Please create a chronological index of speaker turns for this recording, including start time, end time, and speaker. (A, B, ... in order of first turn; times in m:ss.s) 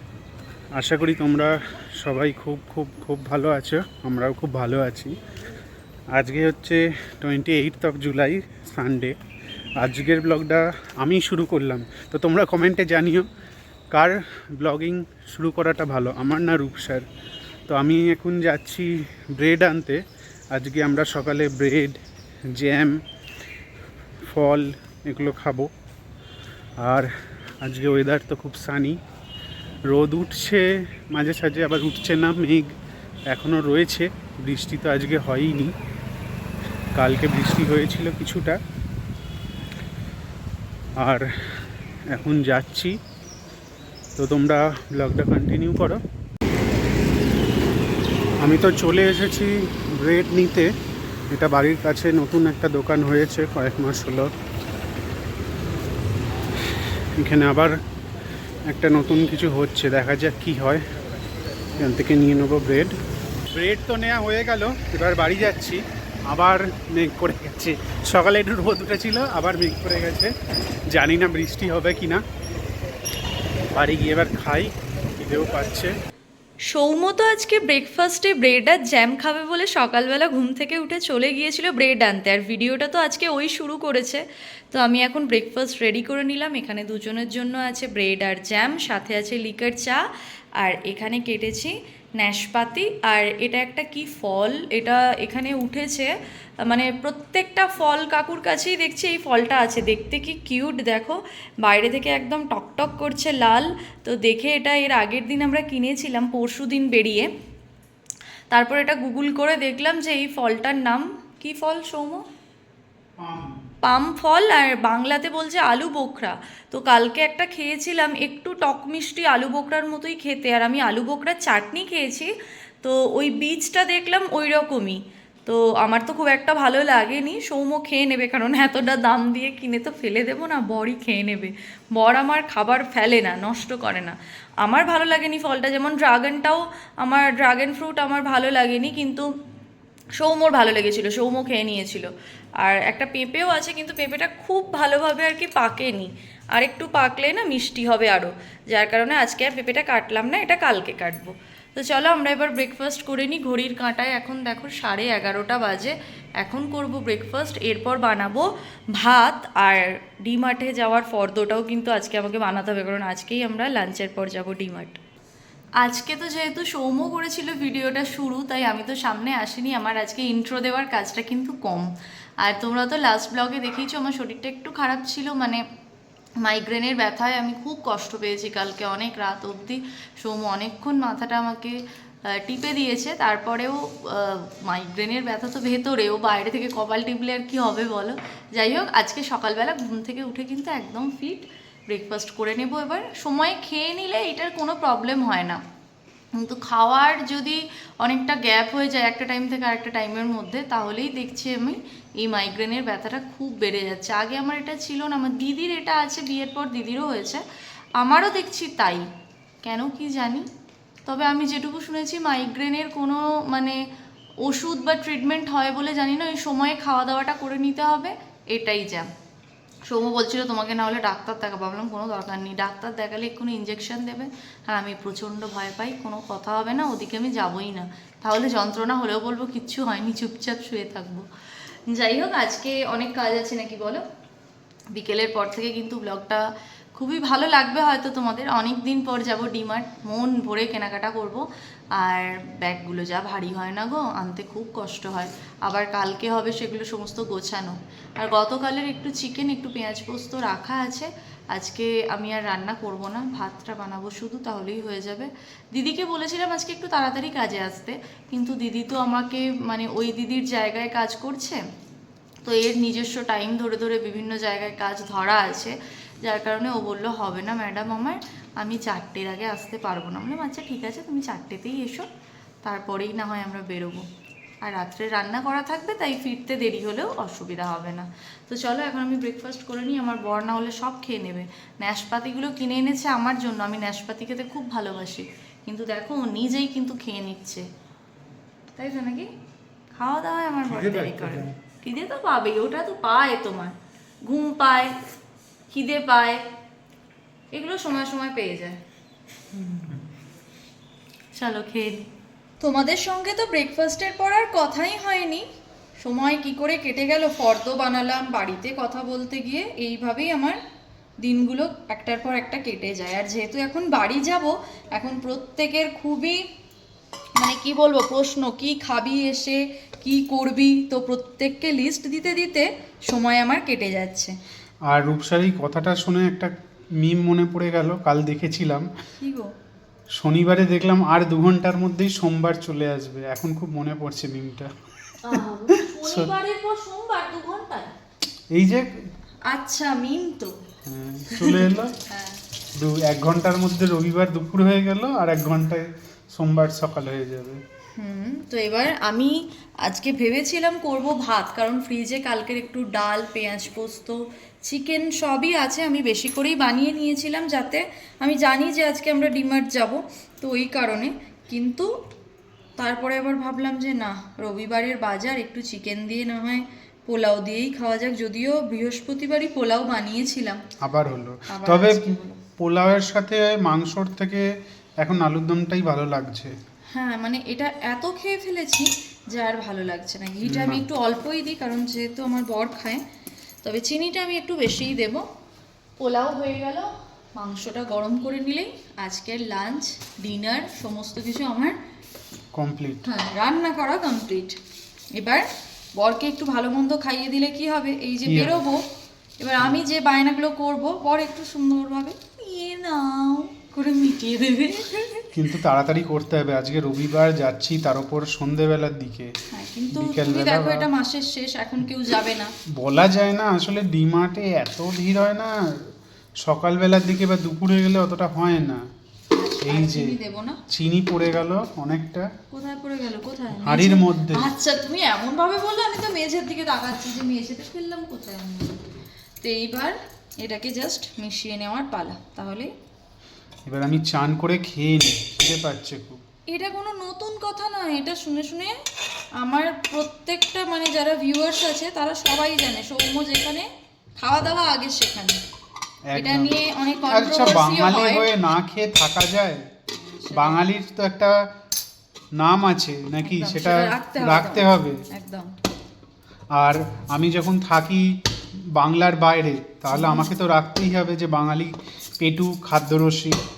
0:00.7-0:05.1 A
0:06.1-0:09.2 A
0:09.8-0:13.3 A
0:13.9-0:17.0 A
0:17.7-0:20.0 A
0:20.5-0:22.0 A
0:22.5-0:23.0 A
0:24.2-0:25.7 A
0:26.8-0:29.0 A
0:29.9-0:32.7 A
0:33.3-0:35.7 A
0:37.0-0:38.6 A
0:41.0-0:41.3 A
0:42.1-0:43.0 A
0:44.2-0:46.0 A
0:48.4-0:50.7 A
0:51.3-0:54.3 A
0:57.2-0:57.8 A
0:58.7-1:00.8 A
1:01.8-1:02.9 A
1:03.5-1:10.3 A
1:10.9-1:12.2 A
1:13.7-1:15.9 A
1:16.7-1:30.0 B
1:30.6-1:36.1 B
1:36.6-1:47.3 B
1:48.5-1:52.2 B
1:53.2-1:53.6 A
1:53.8-2:02.3 B
2:02.8-2:19.3 B
2:20.2-2:45.0 B
2:45.8-2:55.6 B
2:56.4-3:15.6 B
3:16.4-3:27.4 B
3:28.0-3:29.1 B
3:29.6-3:30.5 B
3:31.1-3:33.8 B
3:34.4-3:39.1 B
3:39.9-3:51.3 B
3:51.9-3:54.0 B
3:54.9-4:01.4 B
4:02.0-4:21.6 B
4:22.4-4:32.1 B
4:32.6-4:34.0 B
4:34.6-4:47.6 B
4:48.8-4:49.3 B
4:49.9-4:53.7 B
4:50.7-4:51.5 A
4:54.2-4:54.9 B
4:55.7-4:56.4 B
4:57.5-4:58.8 B
4:59.6-5:00.0 A
5:01.3-5:02.1 B
5:02.6-5:05.4 B
5:06.0-5:10.6 B
5:11.2-5:16.4 B
5:17.4-5:24.3 B
5:24.9-5:28.9 A
5:29.2-5:29.5 B
5:30.2-5:34.7 A
5:35.2-5:37.9 B
5:35.3-5:36.3 A
5:38.5-5:38.9 A
5:39.5-5:40.6 B
5:40.8-5:41.9 A
5:41.3-5:42.4 B
5:42.8-5:47.6 A
5:48.0-6:01.9 B
6:02.8-6:10.6 B
6:10.8-6:14.4 A
6:11.5-6:12.4 B
6:15.0-6:16.5 A
6:16.9-6:23.0 B
6:20.4-6:20.8 A
6:23.6-6:25.2 B
6:26.0-6:31.8 B
6:32.5-6:33.1 A
6:33.0-6:34.6 B
6:35.1-6:38.8 B
6:38.2-6:38.6 A
6:39.4-6:45.3 B
6:45.3-6:49.3 A
6:49.5-6:52.5 B
6:49.9-6:50.9 A
6:52.8-6:55.9 A
6:56.4-6:58.8 A
6:59.3-7:00.6 B
6:59.7-7:00.1 A
7:00.7-7:02.3 A
7:02.5-7:08.8 B
7:03.5-7:04.5 A
7:09.4-7:12.7 B
7:13.7-7:16.2 A
7:16.5-7:18.8 B
7:19.4-7:25.4 B
7:26.1-7:26.5 A
7:26.1-7:28.3 B
7:27.1-7:29.6 A
7:29.9-7:30.6 B
7:30.3-7:31.3 A
7:32.4-7:35.0 A
7:33.2-7:35.5 B
7:36.5-7:43.4 A
7:39.9-7:40.3 B